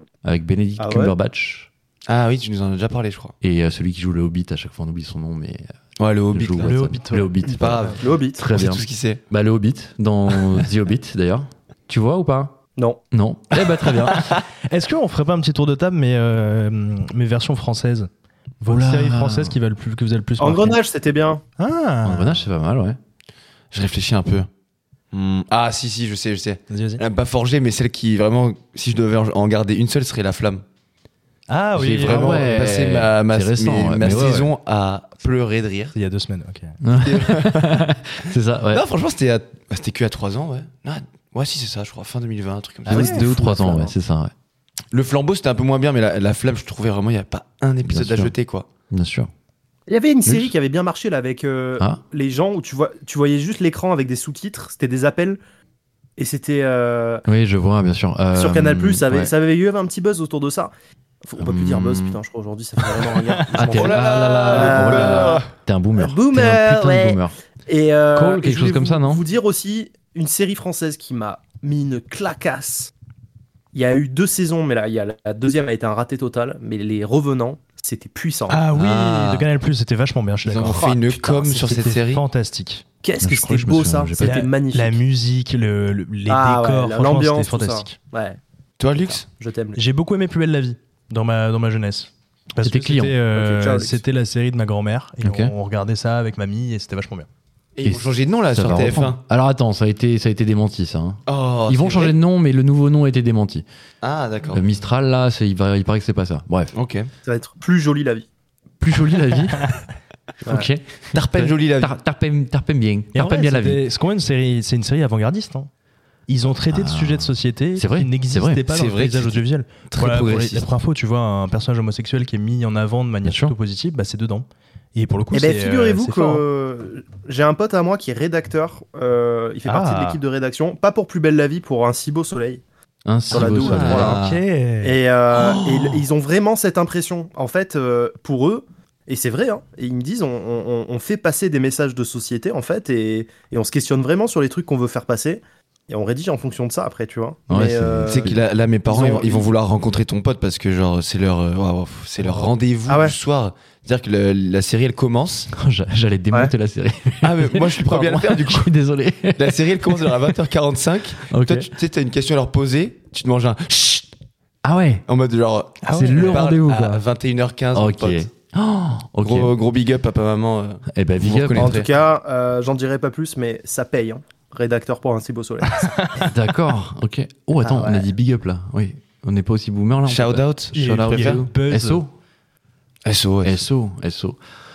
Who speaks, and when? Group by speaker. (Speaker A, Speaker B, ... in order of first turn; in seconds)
Speaker A: 0.2-1.7, 3.4-5.7, 6.3-12.6, 13.1-14.3, 18.7-19.6, 22.0-23.0, 32.1-34.5, 36.8-38.8, 42.9-44.3, 47.9-48.3, 48.9-49.3, 50.3-50.5, 57.3-59.3, 61.4-62.2, 63.5-67.4, 68.1-69.2, 78.8-79.5, 83.2-84.5, 92.6-93.1, 95.2-95.5, 97.8-103.7, 104.5-106.7, 108.8-109.6, 110.5-113.8, 116.7-118.6, 123.2-123.5, 133.1-134.2, 147.5-148.4, 155.5-160.3, 161.3-161.7, 164.6-165.0, 165.9-167.0, 167.7-169.5, 170.9-171.8, 176.2-182.1, 183.4-184.4
Speaker B: 0.8-1.2, 8.0-8.4, 20.4-21.4, 49.9-55.4, 56.2-57.2, 58.3-60.7, 61.2-65.4, 66.0-72.9, 73.7-78.6, 80.6-81.4, 83.0-85.0, 86.3-88.4, 89.0-89.8, 93.3-94.0, 107.2-108.3, 125.3-132.6, 133.3-134.2, 134.8-149.5, 152.2-153.2, 171.6-176.0, 177.6-178.1
Speaker C: 2.1-3.3, 6.0-6.9, 7.4-9.2, 10.3-10.7, 23.7-24.5, 25.1-30.6, 31.8-36.0, 37.0-37.8, 38.7-43.9, 44.9-48.7, 63.7-65.5, 80.5-82.2, 88.8-89.3, 97.8-99.2, 101.3-102.2, 104.0-104.6, 106.7-107.1, 111.1-111.9, 118.7-120.7, 133.3-134.4, 135.3-136.1, 148.1-155.5, 157.2-158.7, 159.3-164.1, 165.1-168.3, 169.2-171.9, 180.1-181.5, 183.1-183.6
Speaker D: 6.6-8.0, 14.2-18.1, 18.6-20.8, 21.6-22.4, 26.7-27.0, 31.5-32.6, 35.9-36.8, 42.9-43.3, 78.5-82.8, 84.2-88.0, 89.8-97.3, 113.1-115.7, 116.3-126.4, 129.7-130.2, 133.7-135.0, 165.8-166.4, 175.8-176.3, 180.7-182.1